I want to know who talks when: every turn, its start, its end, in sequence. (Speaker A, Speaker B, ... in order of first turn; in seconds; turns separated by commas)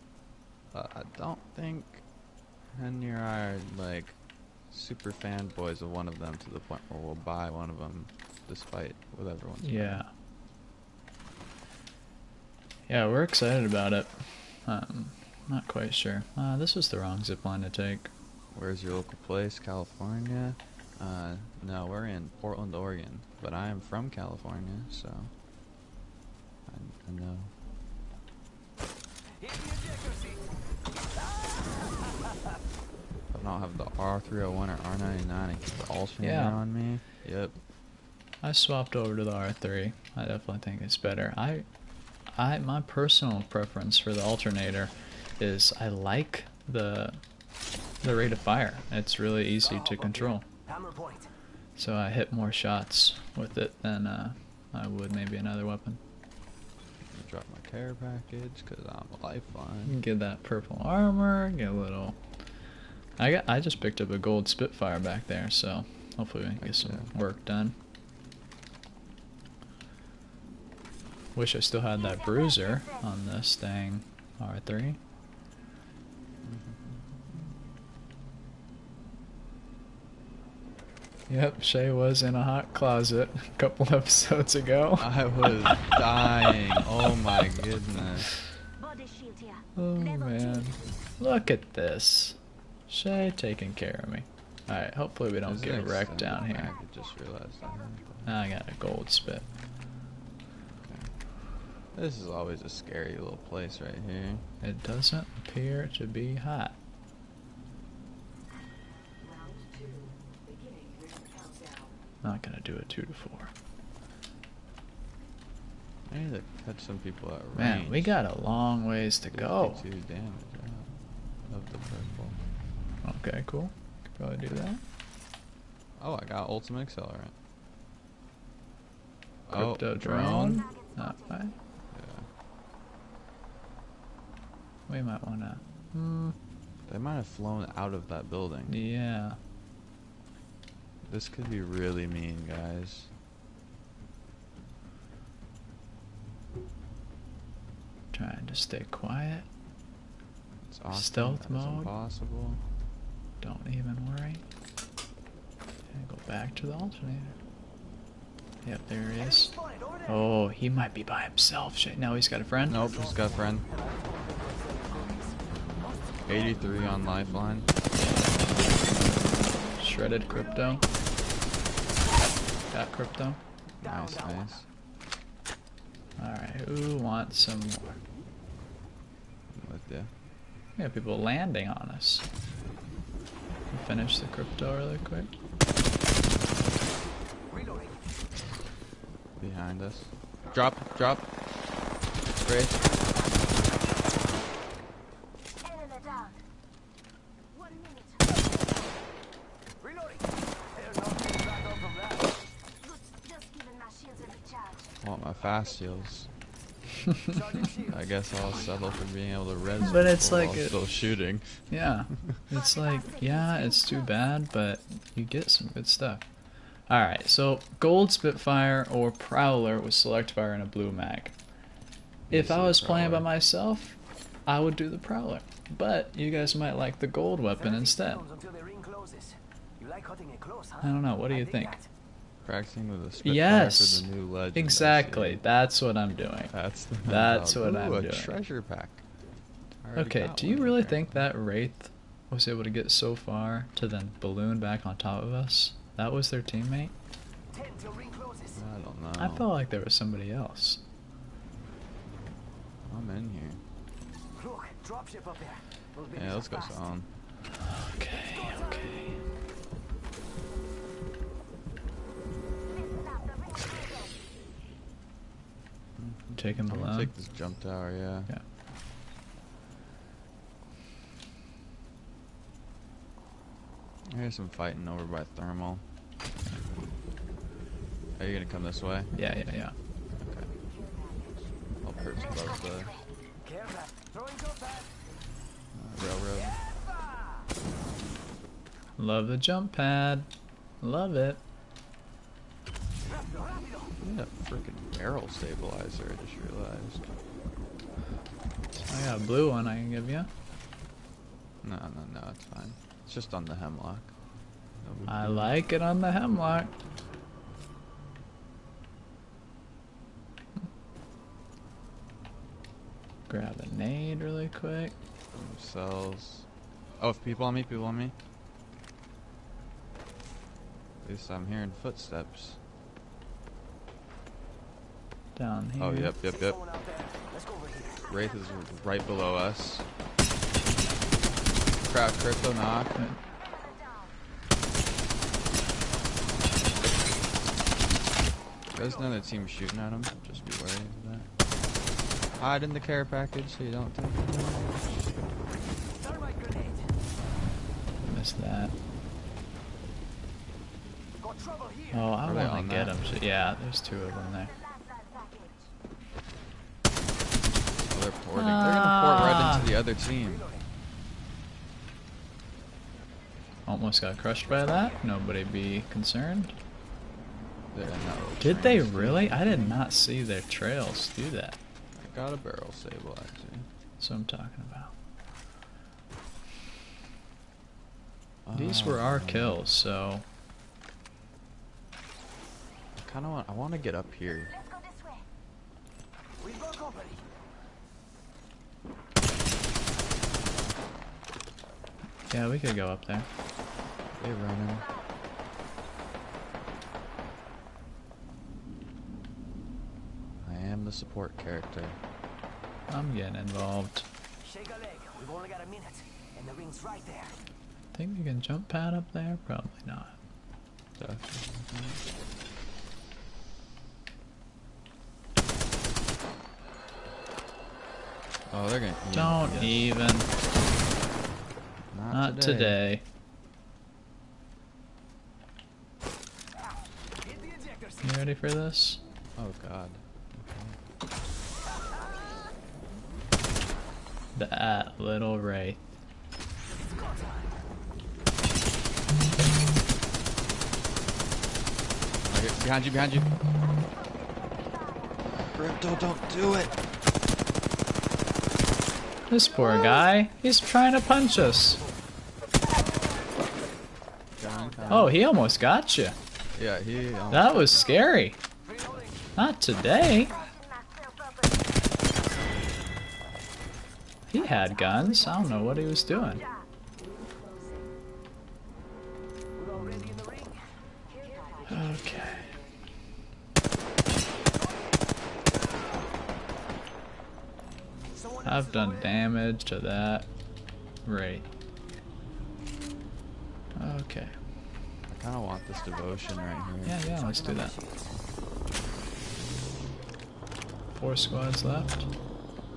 Speaker A: 0.7-2.0, Speaker A: 2.7-4.2, Speaker A: 4.7-10.0, Speaker B: 9.6-10.1, Speaker B: 12.9-18.1, Speaker A: 18.5-25.3, Speaker A: 26.7-27.5, Speaker C: 29.4-30.4, Speaker A: 33.3-37.6, Speaker B: 36.2-36.6, Speaker B: 38.4-41.6, Speaker B: 42.3-47.2, Speaker B: 48.0-50.4, Speaker C: 49.6-51.3, Speaker B: 51.8-56.0, Speaker A: 57.1-60.0, Speaker B: 59.9-62.2, Speaker B: 63.2-67.7, Speaker A: 66.6-67.1, Speaker B: 71.3-75.0, Speaker D: 72.0-73.0, Speaker A: 76.4-77.0, Speaker B: 81.3-86.6, Speaker A: 85.0-88.3, Speaker D: 88.8-90.9, Speaker B: 89.8-92.4, Speaker B: 92.9-96.8, Speaker A: 95.4-98.3, Speaker B: 98.2-99.5, Speaker A: 100.8-101.1, Speaker A: 101.9-104.4, Speaker B: 104.6-106.8, Speaker D: 109.2-112.0, Speaker B: 112.2-113.5, Speaker A: 116.1-118.1, Speaker B: 117.5-119.8, Speaker A: 119.3-120.9, Speaker A: 121.4-122.4, Speaker B: 123.0-124.8, Speaker A: 126.0-127.3, Speaker A: 129.5-130.7, Speaker B: 129.5-131.5, Speaker D: 130.4-131.5, Speaker A: 131.9-132.3, Speaker B: 134.9-136.3, Speaker A: 136.9-138.8, Speaker B: 138.7-139.4, Speaker A: 141.0-143.1, Speaker B: 148.1-149.4, Speaker A: 150.7-152.6, Speaker B: 150.9-151.9, Speaker B: 153.4-154.4, Speaker B: 155.9-157.3, Speaker B: 158.6-159.5, Speaker C: 159.2-160.1, Speaker B: 160.1-162.9, Speaker A: 162.7-163.7, Speaker C: 162.8-166.6, Speaker A: 166.3-167.7, Speaker B: 168.0-170.9, Speaker B: 172.7-173.4, Speaker A: 173.8-174.7, Speaker C: 173.8-174.5, Speaker B: 176.2-178.0, Speaker A: 179.5-180.1, Speaker B: 180.8-182.2, Speaker B: 183.7-185.3, Speaker C: 187.5-187.9, Speaker A: 189.4-191.3, Speaker A: 192.4-192.8, Speaker D: 195.6-196.3, Speaker D: 197.5-198.6, Speaker C: 199.8-200.2, Speaker C: 200.8-202.2, Speaker D: 202.8-204.9, Speaker A: 205.0-206.3, Speaker C: 207.3-208.0, Speaker A: 207.8-211.6, Speaker B: 209.8-210.8, Speaker B: 211.7-216.2, Speaker D: 212.5-214.1, Speaker B: 216.9-221.3, Speaker A: 222.3-223.3, Speaker B: 222.3-228.2, Speaker C: 227.6-231.8, Speaker B: 230.8-231.8, Speaker A: 232.4-235.4, Speaker B: 233.2-236.5, Speaker A: 236.5-239.0, Speaker B: 237.0-238.3, Speaker A: 239.8-241.2, Speaker B: 239.9-246.9, Speaker C: 247.5-248.6, Speaker A: 248.5-249.5, Speaker B: 249.2-250.8, Speaker A: 252.9-253.6, Speaker C: 254.4-256.7, Speaker A: 256.1-257.1, Speaker B: 257.7-259.2, Speaker C: 258.3-258.9, Speaker D: 262.7-264.2, Speaker A: 266.0-268.3, Speaker B: 266.4-267.1, Speaker A: 274.1-275.8, Speaker A: 278.1-279.1, Speaker B: 279.1-279.7, Speaker A: 280.2-280.5, Speaker D: 280.4-283.0, Speaker A: 281.8-282.9, Speaker C: 283.5-284.8, Speaker A: 285.7-286.6, Speaker B: 289.0-290.3, Speaker B: 290.8-291.4, Speaker C: 293.1-293.9, Speaker A: 294.0-297.1, Speaker B: 298.8-300.3, Speaker A: 301.6-304.1, Speaker A: 304.8-305.5, Speaker B: 305.1-306.7, Speaker B: 313.3-314.9, Speaker A: 315.3-316.5, Speaker A: 317.0-318.1, Speaker A: 321.0-322.6, Speaker B: 325.4-326.1, Speaker A: 325.8-326.6, Speaker C: 326.4-328.0, Speaker A: 328.0-329.9, Speaker D: 328.2-328.5, Speaker A: 331.8-332.9, Speaker D: 333.3-334.1, Speaker A: 338.7-341.3, Speaker A: 342.4-344.8, Speaker C: 346.0-346.8, Speaker B: 348.0-348.7, Speaker C: 351.2-351.9, Speaker B: 351.9-354.5, Speaker A: 352.2-353.2, Speaker D: 354.3-355.7, Speaker A: 357.9-360.5, Speaker B: 358.3-359.7, Speaker C: 360.2-360.6, Speaker B: 363.7-366.6, Speaker A: 367.7-369.8, Speaker B: 368.4-371.6, Speaker A: 371.9-373.7, Speaker B: 374.0-374.9, Speaker A: 378.4-379.6, Speaker B: 378.5-380.2, Speaker A: 383.0-384.5, Speaker D: 384.5-385.2, Speaker C: 386.4-387.2, Speaker B: 392.3-393.3, Speaker A: 394.2-394.9, Speaker A: 400.4-402.0, Speaker B: 402.9-404.1, Speaker C: 404.4-407.3, Speaker B: 407.9-410.1, Speaker A: 411.0-412.0, Speaker A: 418.5-419.9, Speaker B: 419.1-420.3, Speaker A: 421.9-422.8, Speaker B: 422.1-423.0, Speaker C: 427.2-428.0, Speaker B: 428.0-429.0, Speaker A: 429.4-430.8, Speaker B: 434.3-435.8, Speaker C: 436.7-437.5, Speaker A: 442.2-443.3, Speaker D: 444.0-445.2, Speaker A: 445.4-446.7, Speaker B: 449.3-451.8, Speaker A: 454.4-455.2, Speaker B: 454.9-456.1, Speaker A: 456.5-457.9, Speaker B: 457.3-458.4, Speaker B: 459.4-460.3, Speaker D: 460.0-461.7, Speaker B: 464.3-466.4, Speaker D: 464.3-467.9, Speaker C: 469.6-470.6, Speaker A: 469.8-470.1, Speaker D: 471.0-472.8, Speaker B: 471.7-472.5, Speaker C: 478.2-478.9, Speaker B: 478.4-480.3, Speaker B: 481.0-481.5, Speaker B: 483.8-484.3, Speaker A: 485.1-487.0, Speaker B: 486.8-487.8, Speaker C: 487.2-488.1, Speaker B: 490.9-492.1